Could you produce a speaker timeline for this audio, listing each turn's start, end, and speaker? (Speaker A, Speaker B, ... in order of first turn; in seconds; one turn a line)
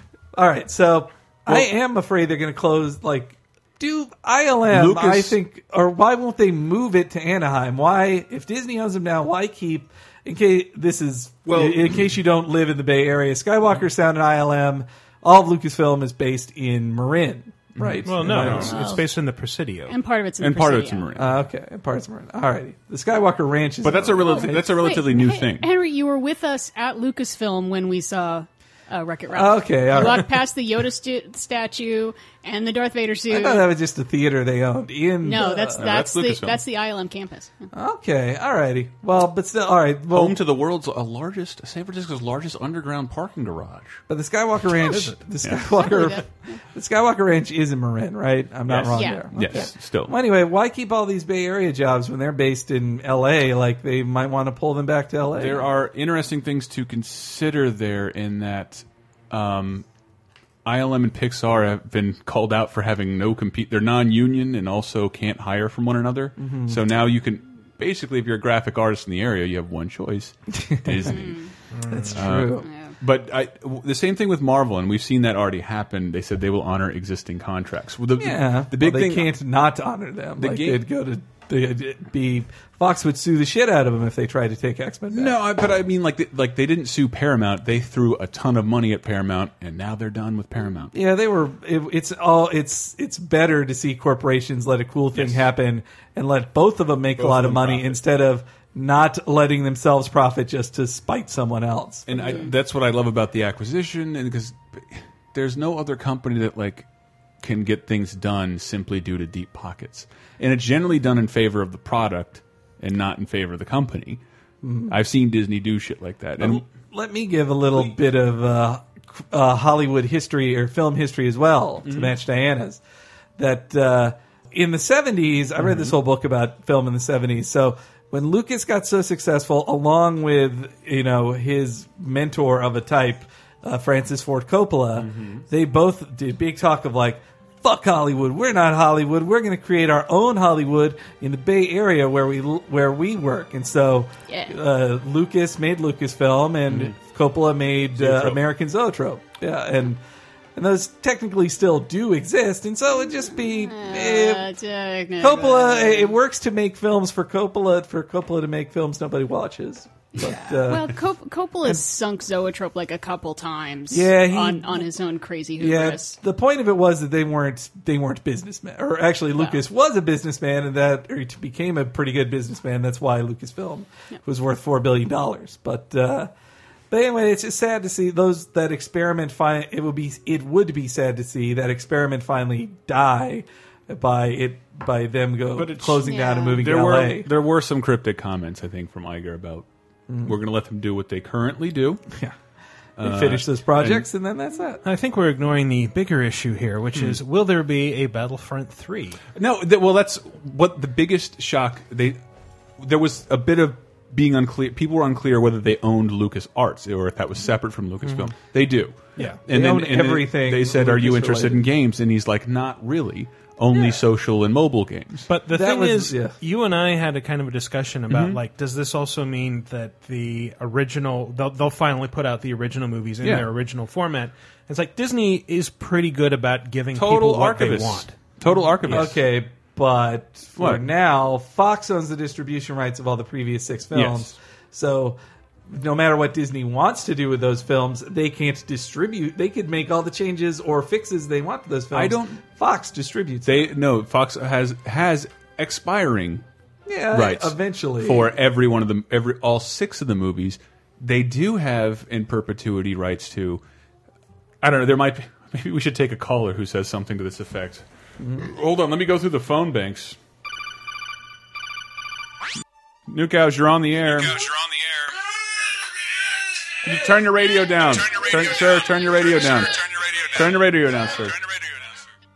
Speaker A: 0.3-18.9
Speaker B: 4.7-5.4
Speaker B: 11.5-12.1
Speaker B: 17.8-18.9
Speaker C: 18.1-20.0
Speaker D: 18.5-19.1
Speaker D: 19.9-21.0
Speaker B: 20.4-21.4
Speaker A: 21.1-24.9
Speaker B: 23.8-25.7
Speaker D: 24.3-33.7
Speaker A: 29.3-30.3
Speaker A: 33.3-35.9
Speaker D: 35.2-37.7
Speaker B: 35.8-36.6
Speaker A: 37.7-40.4
Speaker B: 40.1-44.0
Speaker A: 44.1-55.7
Speaker B: 45.4-46.0
Speaker D: 45.8-46.5
Speaker B: 48.7-50.1
Speaker D: 48.9-49.7
Speaker B: 55.4-59.9
Speaker B: 60.6-71.5
Speaker A: 66.4-66.8
Speaker A: 70.5-71.2
Speaker D: 71.1-71.5
Speaker C: 71.7-72.2
Speaker A: 71.9-72.7
Speaker B: 72.1-79.3
Speaker D: 72.6-72.9
Speaker A: 78.2-85.3
Speaker B: 80.4-80.8
Speaker B: 85.1-90.9
Speaker A: 90.9-102.5
Speaker B: 95.1-95.4
Speaker B: 97.2-98.0
Speaker B: 102.1-106.9
Speaker B: 107.4-114.2
Speaker A: 114.6-115.0
Speaker B: 114.9-116.6
Speaker A: 116.4-122.8
Speaker B: 121.9-122.1
Speaker A: 123.4-150.0
Speaker B: 135.0-135.4
Speaker D: 144.3-144.5
Speaker B: 146.7-146.9
Speaker B: 148.0-148.4
Speaker A: 150.6-154.5
Speaker D: 153.3-156.2
Speaker A: 155.2-160.9
Speaker D: 160.2-166.2
Speaker A: 163.9-164.9
Speaker A: 165.6-176.3
Speaker A: 176.9-187.3
Speaker B: 185.5-189.7
Speaker D: 186.1-186.6
Speaker A: 190.1-190.3
Speaker B: 190.2-192.0
Speaker A: 193.0-194.8
Speaker B: 193.0-194.1
Speaker C: 194.8-199.2
Speaker B: 196.9-197.2
Speaker B: 199.4-202.2
Speaker B: 202.8-215.3
Speaker A: 209.2-211.7
Speaker C: 215.3-229.1
Speaker A: 215.5-216.4
Speaker B: 218.1-218.4
Speaker B: 223.2-223.5
Speaker B: 226.9-229.2
Speaker A: 228.9-235.2
Speaker B: 230.6-230.8
Speaker B: 233.9-234.3
Speaker A: 235.7-243.8
Speaker B: 241.9-242.4
Speaker B: 243.4-246.4
Speaker A: 246.9-248.3
Speaker B: 247.1-253.6
Speaker B: 254.6-257.8
Speaker A: 258.2-258.5
Speaker B: 258.4-260.2
Speaker B: 263.1-264.5
Speaker E: 264.3-265.0
Speaker B: 266.8-271.4
Speaker E: 268.1-270.6
Speaker E: 271.4-271.7